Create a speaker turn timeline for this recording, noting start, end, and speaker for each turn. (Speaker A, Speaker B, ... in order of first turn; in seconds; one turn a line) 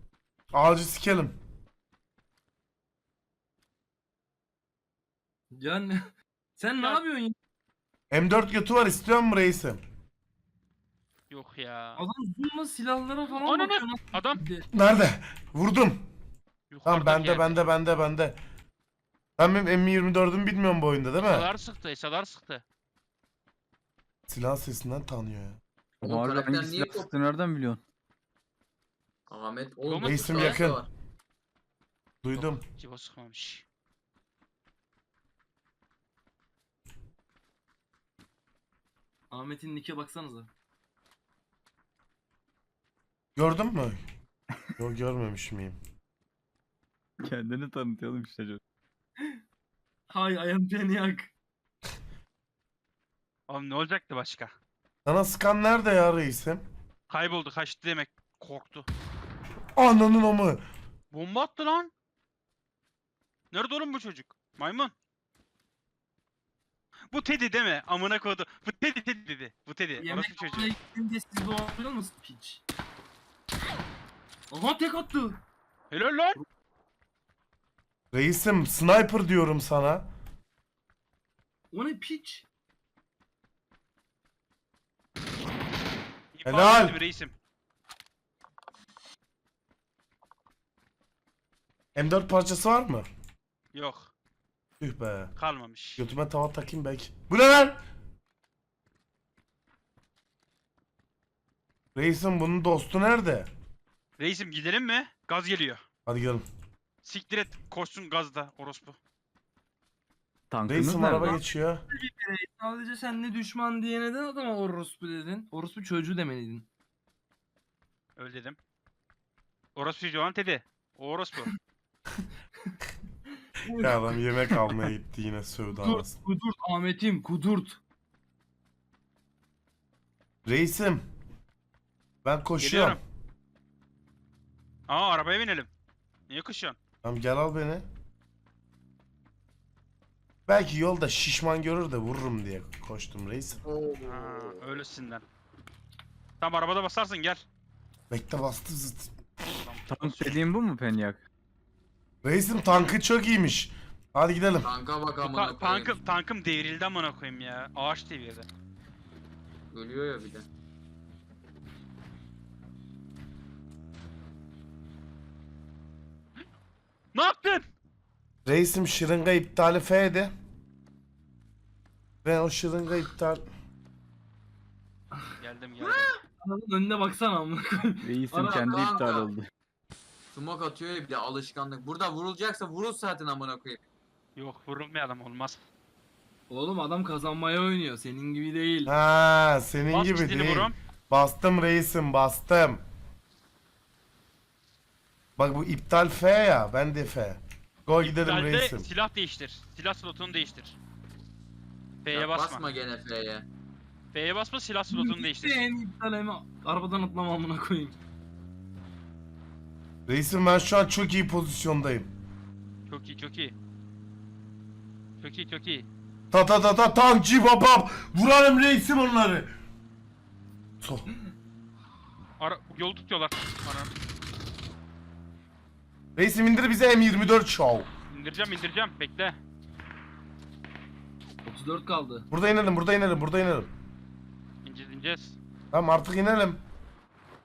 Speaker A: 0.5-1.4
Speaker B: 5.5-7.3
Speaker A: 8.1-9.8
Speaker C: 11.3-12.0
Speaker B: 12.0-14.7
Speaker C: 13.4-14.4
Speaker A: 14.7-16.1
Speaker C: 16.7-17.7
Speaker A: 16.8-18.4
Speaker A: 19.4-21.5
Speaker C: 21.2-22.6
Speaker A: 24.3-25.6
Speaker D: 26.0-27.1
Speaker E: 26.0-27.8
Speaker D: 29.3-30.9
Speaker C: 29.8-30.6
Speaker A: 30.0-30.8
Speaker A: 32.2-32.6
Speaker C: 32.3-33.6
Speaker B: 39.3-40.5
Speaker A: 43.4-44.0
Speaker A: 44.8-45.8
Speaker E: 47.2-48.6
Speaker B: 50.1-51.3
Speaker C: 53.5-54.5
Speaker A: 55.0-56.6
Speaker C: 57.1-58.9
Speaker A: 59.8-60.6
Speaker C: 61.1-61.9
Speaker C: 63.5-64.9
Speaker C: 67.1-70.7
Speaker B: 70.0-72.6
Speaker B: 74.5-75.4
Speaker C: 75.9-76.4
Speaker A: 78.1-80.1
Speaker B: 81.7-82.5
Speaker C: 86.3-87.3
Speaker A: 86.4-86.9
Speaker A: 91.9-93.1
Speaker C: 93.7-94.1
Speaker A: 94.8-95.3
Speaker C: 95.4-96.0
Speaker A: 96.0-97.8
Speaker A: 101.9-103.5
Speaker C: 104.2-105.8
Speaker A: 106.0-106.4
Speaker C: 107.0-109.0
Speaker E: 110.5-111.4
Speaker A: 110.7-111.8
Speaker B: 111.9-116.7
Speaker C: 118.2-118.6
Speaker C: 119.8-121.5
Speaker B: 123.6-124.1
Speaker A: 123.8-126.2
Speaker B: 125.8-127.8
Speaker A: 130.4-131.0
Speaker A: 132.2-133.0
Speaker C: 132.6-133.0
Speaker C: 134.9-135.7
Speaker C: 136.3-136.8
Speaker A: 137.0-137.8
Speaker A: 140.5-143.6
Speaker D: 143.7-144.6
Speaker C: 144.0-145.2
Speaker C: 146.4-147.4
Speaker A: 148.1-149.1
Speaker C: 149.4-150.4
Speaker E: 149.9-151.2
Speaker A: 152.2-154.7
Speaker D: 154.6-155.9
Speaker C: 155.2-158.5
Speaker D: 159.7-160.5
Speaker C: 167.1-167.7
Speaker A: 168.4-170.3
Speaker A: 172.2-173.4
Speaker C: 175.4-176.2
Speaker B: 176.4-178.8
Speaker E: 178.0-179.5
Speaker D: 178.4-179.3
Speaker D: 180.3-183.8
Speaker C: 184.4-185.6
Speaker B: 186.5-188.9
Speaker A: 188.9-192.8
Speaker C: 189.9-190.8
Speaker A: 195.4-198.9
Speaker C: 198.0-200.8
Speaker C: 202.0-202.6
Speaker D: 202.1-203.5
Speaker C: 204.1-205.6
Speaker B: 204.9-208.0
Speaker A: 210.1-212.1
Speaker C: 212.9-213.5
Speaker C: 215.2-215.9
Speaker A: 216.3-219.5
Speaker A: 220.8-221.1
Speaker C: 222.4-223.9
Speaker A: 226.2-227.9
Speaker C: 228.1-229.4
Speaker B: 231.4-232.2
Speaker A: 232.3-233.7
Speaker C: 234.6-235.4
Speaker A: 235.7-236.6